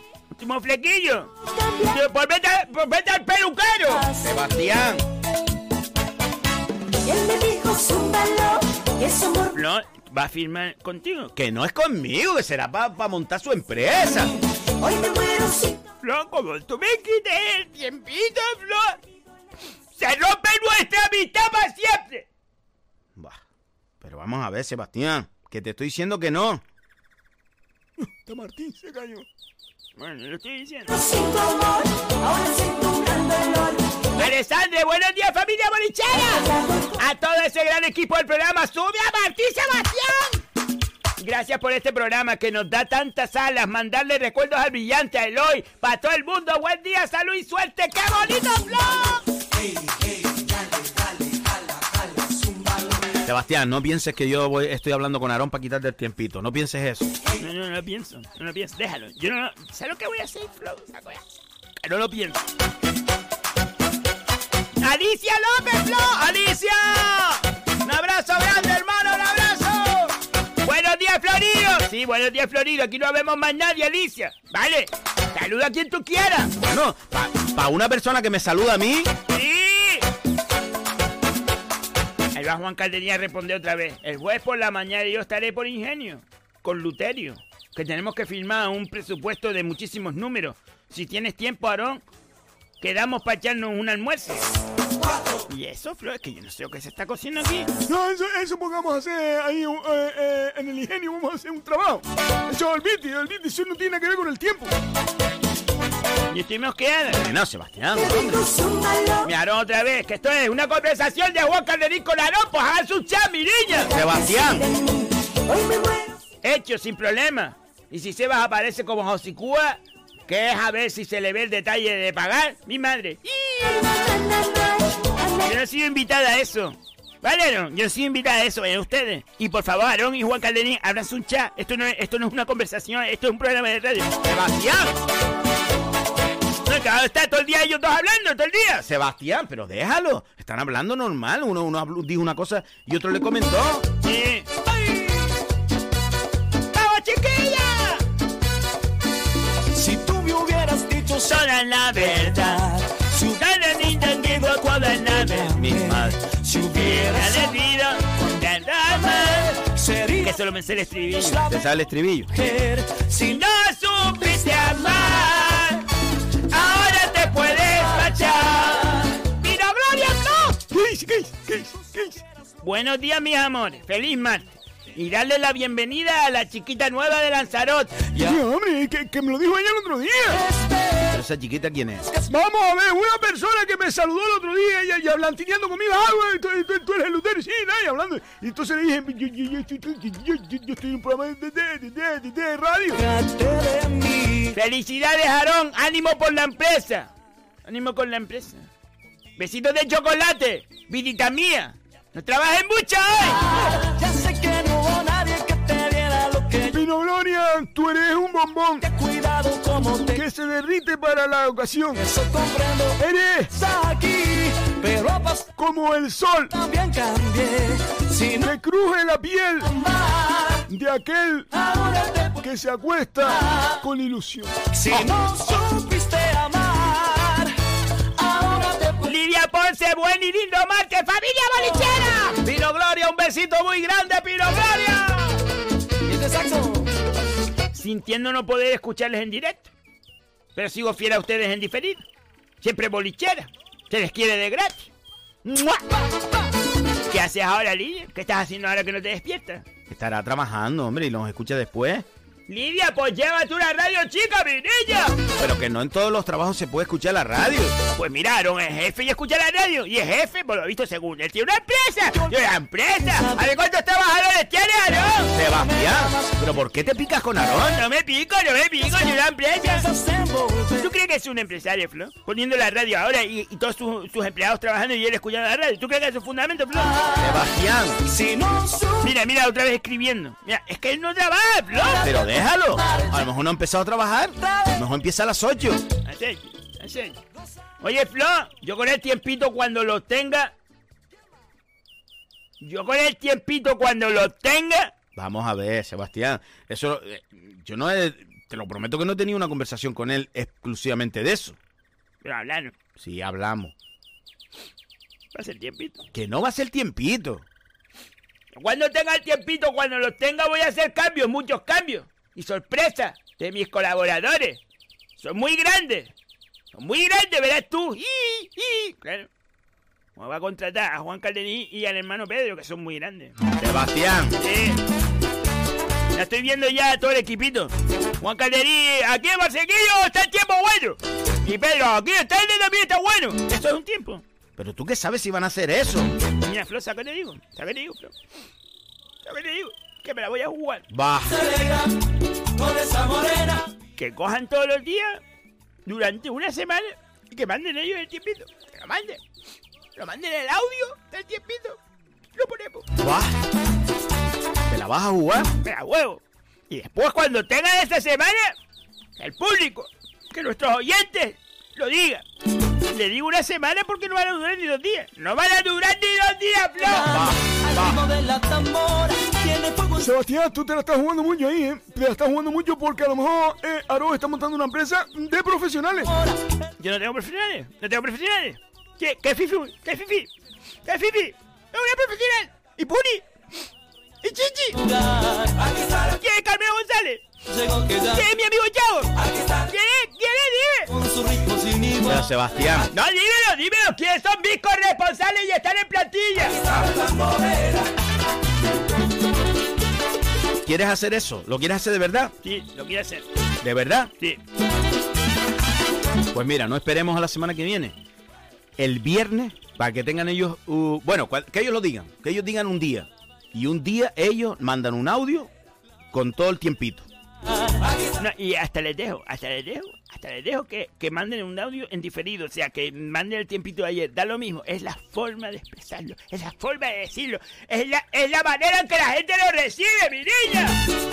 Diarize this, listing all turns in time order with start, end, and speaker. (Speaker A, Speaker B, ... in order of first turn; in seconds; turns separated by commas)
Speaker A: 0.3-1.3, Speaker B: 1.5-2.0, Speaker A: 1.9-4.0, Speaker B: 3.9-4.5, Speaker C: 4.2-5.0, Speaker B: 7.0-9.6, Speaker A: 9.5-11.3, Speaker C: 11.4-14.3, Speaker B: 14.8-15.8, Speaker A: 16.0-19.0, Speaker A: 20.0-22.3, Speaker C: 24.0-26.6, Speaker D: 28.0-29.3, Speaker A: 30.0-31.0, Speaker B: 30.9-34.3, Speaker A: 34.2-40.4, Speaker B: 36.1-37.0, Speaker A: 41.2-49.2, Speaker C: 53.2-57.1, Speaker A: 57.4-61.2, Speaker A: 61.8-62.4, Speaker A: 64.8-67.4, Speaker C: 67.8-70.1, Speaker A: 70.6-76.5, Speaker C: 76.6-79.1, Speaker A: 79.3-80.0, Speaker A: 82.3-92.0, Speaker A: 92.8-94.4, Speaker A: 95.5-97.7, Speaker D: 97.9-104.7, Speaker A: 106.3-107.3, Speaker C: 107.1-108.4, Speaker B: 108.0-109.3, Speaker A: 109.2-113.9, Speaker C: 113.9-114.7, Speaker B: 113.9-116.2, Speaker A: 116.4-123.5, Speaker B: 123.5-125.5, Speaker A: 125.4-134.1, Speaker C: 134.2-135.0, Speaker A: 136.7-138.8, Speaker C: 138.8-143.9, Speaker A: 144.0-144.5, Speaker A: 146.7-148.0, Speaker E: 149.8-151.4, Speaker A: 151.2-152.8, Speaker E: 152.5-153.4, Speaker A: 153.3-155.6, Speaker E: 155.0-157.5, Speaker C: 155.6-156.2, Speaker A: 156.8-159.6, Speaker E: 159.6-160.3, Speaker A: 160.2-161.4, Speaker E: 161.1-161.6, Speaker C: 161.5-162.3, Speaker E: 162.3-163.4, Speaker A: 163.3-165.8, Speaker A: 166.5-168.9, Speaker A: 169.4-170.6, Speaker D: 170.7-172.2, Speaker A: 172.6-178.2, Speaker D: 178.2-180.4, Speaker E: 180.4-181.0, Speaker C: 181.1-182.1, Speaker D: 182.3-193.0, Speaker E: 193.0-194.6, Speaker A: 194.6-197.1, Speaker A: 197.7-198.7, Speaker A: 199.4-203.4, Speaker E: 203.4-206.8, Speaker D: 206.7-208.9, Speaker E: 208.8-210.2, Speaker D: 210.1-212.0, Speaker E: 212.0-213.0, Speaker D: 213.0-213.5, Speaker E: 213.5-215.5, Speaker D: 215.6-216.5, Speaker E: 216.5-218.5, Speaker D: 218.4-219.7, Speaker E: 219.8-220.6, Speaker D: 220.7-221.5, Speaker E: 221.5-222.4, Speaker D: 222.4-224.6, Speaker E: 223.4-223.8, Speaker E: 224.7-227.5, Speaker E: 228.2-229.2, Speaker A: 229.0-232.4, Speaker C: 232.4-234.8, Speaker A: 234.8-235.1, Speaker E: 236.1-236.9, Speaker A: 237.7-239.7, Speaker A: 240.6-242.0, Speaker A: 242.6-244.9, Speaker A: 245.4-245.8, Speaker A: 247.1-249.7, Speaker C: 249.9-252.1, Speaker A: 252.5-255.2, Speaker C: 255.4-257.8, Speaker A: 258.0-265.3, Speaker E: 263.1-263.4, Speaker C: 265.3-267.8, Speaker A: 267.7-269.9, Speaker E: 268.9-270.9, Speaker A: 270.8-276.9, Speaker C: 277.2-278.0, Speaker E: 278.1-279.1, Speaker A: 279.0-282.1, Speaker C: 282.0-285.8, Speaker A: 286.1-287.2, Speaker A: 287.8-290.5, Speaker A: 292.6-294.9, Speaker C: 295.2-301.6, Speaker A: 302.2-302.8, Speaker C: 303.0-303.7, Speaker A: 305.3-306.0, Speaker C: 306.1-307.5, Speaker A: 308.6-314.6, Speaker A: 315.2-316.1, Speaker A: 316.7-319.3, Speaker A: 320.2-323.4, Speaker C: 323.6-324.3, Speaker A: 324.4-324.8, Speaker A: 326.1-334.2, Speaker C: 334.6-336.1, Speaker A: 336.4-338.1, Speaker A: 339.2-340.9, Speaker C: 340.9-341.4, Speaker E: 341.3-341.9, Speaker E: 342.6-343.6, Speaker A: 344.0-345.2, Speaker A: 345.9-349.2, Speaker A: 350.0-351.8, Speaker A: 352.4-352.9, Speaker C: 353.0-353.3, Speaker C: 354.7-355.5, Speaker A: 355.6-358.6, Speaker A: 359.2-362.2, Speaker A: 362.9-367.2, Speaker E: 366.9-370.1, Speaker C: 367.1-368.0, Speaker D: 370.0-376.1, Speaker A: 376.8-380.3, Speaker A: 380.9-383.2, Speaker A: 384.2-384.8, Speaker E: 384.8-386.1, Speaker A: 386.1-387.2, Speaker E: 387.5-388.2, Speaker A: 388.0-389.1, Speaker E: 389.2-389.6, Speaker A: 389.7-390.9, Speaker E: 390.9-392.2, Speaker C: 392.0-392.9, Speaker A: 392.9-396.6, Speaker E: 396.6-397.8, Speaker C: 400.6-402.3, Speaker A: 402.4-403.2, Speaker C: 403.6-404.1, Speaker C: 406.3-408.0, Speaker C: 408.8-415.5, Speaker C: 416.1-417.1, Speaker A: 418.2-430.8